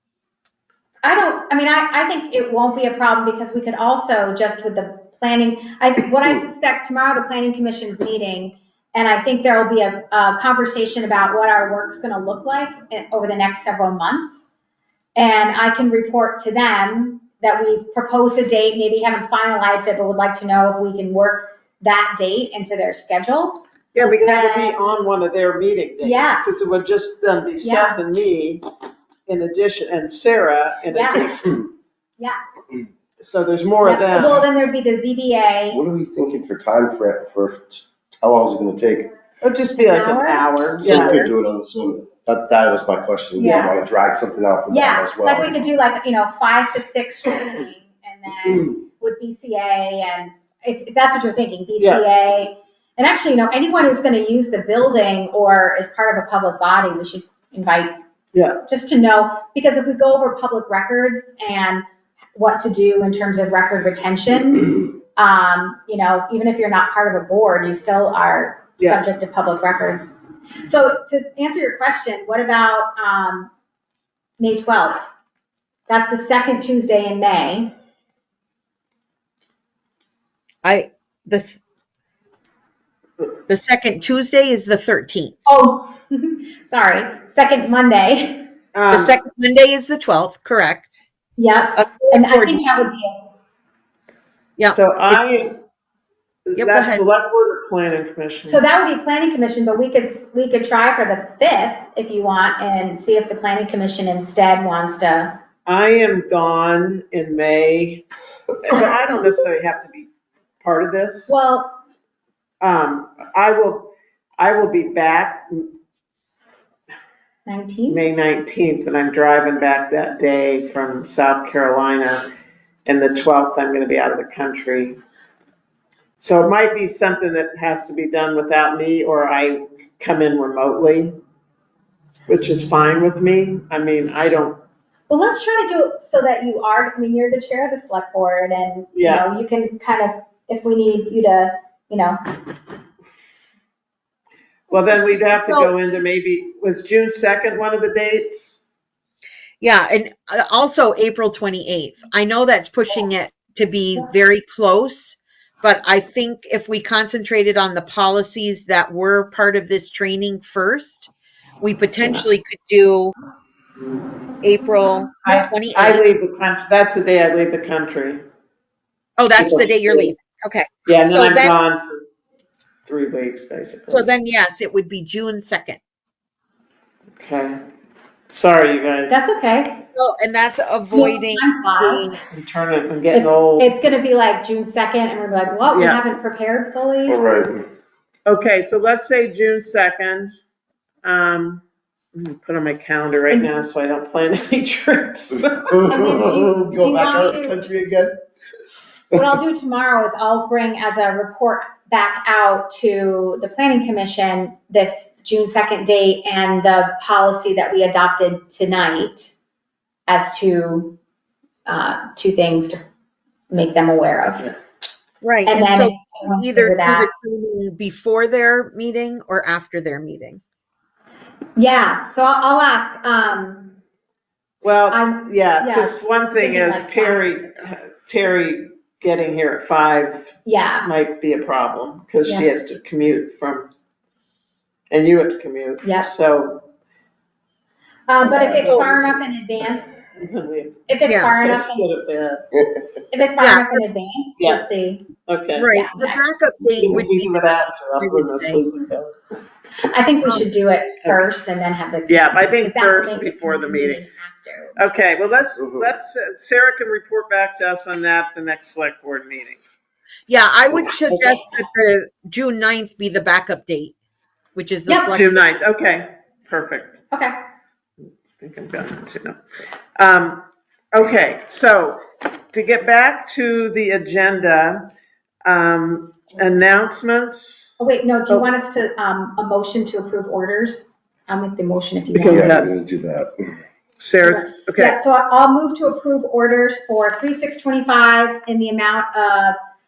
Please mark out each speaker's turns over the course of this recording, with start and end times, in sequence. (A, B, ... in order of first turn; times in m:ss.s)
0:01.0-0:14.5 A
0:15.2-0:23.6 A
0:24.0-0:28.6 B
0:24.2-0:24.8 A
0:26.0-0:26.4 A
0:27.6-0:28.0 A
0:29.3-0:31.6 B
0:30.9-0:31.3 A
0:33.2-0:34.5 B
0:33.8-0:35.8 A
0:35.7-0:39.1 C
0:39.4-0:41.2 B
0:39.8-0:41.3 A
0:40.8-0:45.6 C
0:43.4-0:43.8 A
0:44.7-0:58.0 A
0:58.3-0:58.6 B
0:58.7-1:01.8 A
1:02.4-1:13.5 A
1:14.4-1:15.1 A
1:15.9-1:17.7 A
1:20.6-1:21.6 D
1:23.5-1:25.4 D
1:25.5-1:28.5 A
1:28.7-1:29.2 B
1:28.9-1:30.9 D
1:31.4-1:33.3 A
1:31.8-1:32.7 D
1:34.6-1:35.2 D
1:34.7-1:35.6 B
1:36.5-1:38.6 B
1:36.6-1:37.0 D
1:38.5-1:45.4 A
1:45.7-1:48.0 B
1:48.6-1:50.1 B
1:50.6-1:51.3 B
1:51.3-1:51.8 A
1:52.6-1:55.7 B
1:57.5-1:58.0 A
1:57.9-2:02.3 B
2:02.9-2:05.0 B
2:06.2-2:11.2 B
2:12.3-2:14.6 B
2:15.1-2:22.2 A
2:18.9-2:19.3 B
2:24.7-2:28.6 B
2:25.4-2:25.7 D
2:29.6-2:43.1 D
2:44.4-2:46.0 D
2:45.3-2:48.2 B
2:49.2-2:51.6 D
2:49.4-2:50.1 B
2:50.9-2:52.1 B
2:52.9-2:54.1 B
2:53.9-2:55.8 D
2:57.2-2:57.6 B
2:58.3-2:59.2 B
2:59.1-2:59.8 A
2:59.9-3:02.2 D
3:00.9-3:02.1 A
3:02.3-3:03.7 B
3:03.1-3:07.2 A
3:05.7-3:06.0 B
3:07.1-3:07.6 C
3:08.3-3:10.3 B
3:11.0-3:11.6 B
3:12.2-3:15.8 B
3:15.7-3:18.1 C
3:15.9-3:17.6 A
3:19.2-3:29.3 A
3:30.1-3:31.0 A
3:31.7-3:32.8 A
3:33.5-3:34.5 A
3:35.2-3:40.4 D
3:35.5-3:37.1 A
3:41.6-3:43.8 A
3:44.6-3:53.7 B
3:44.9-3:47.5 A
3:50.4-3:50.9 A
3:54.9-3:56.7 B
3:55.8-3:56.1 A
3:58.1-3:59.9 A
3:58.2-3:59.0 C
3:58.6-3:58.9 D
4:00.2-4:02.5 B
4:00.9-4:01.9 A
4:01.1-4:01.3 D
4:03.1-4:05.1 A
4:03.4-4:03.8 D
4:05.3-4:05.8 B
4:05.6-4:08.6 D
4:05.7-4:06.2 A
4:06.8-4:09.2 B
4:09.8-4:14.8 A
4:12.1-4:14.0 B
4:14.8-4:19.6 B
4:15.6-4:15.9 C
4:20.3-4:24.0 D
4:21.0-4:21.4 B
4:24.6-4:25.4 D
4:24.9-4:25.2 A
4:25.1-4:27.0 B
4:28.4-4:29.4 B
4:30.0-4:34.9 B
4:35.5-4:37.8 B
4:37.8-4:42.6 A
4:42.1-4:42.7 B
4:42.3-4:43.3 C
4:44.0-4:45.0 B
4:44.2-4:49.6 A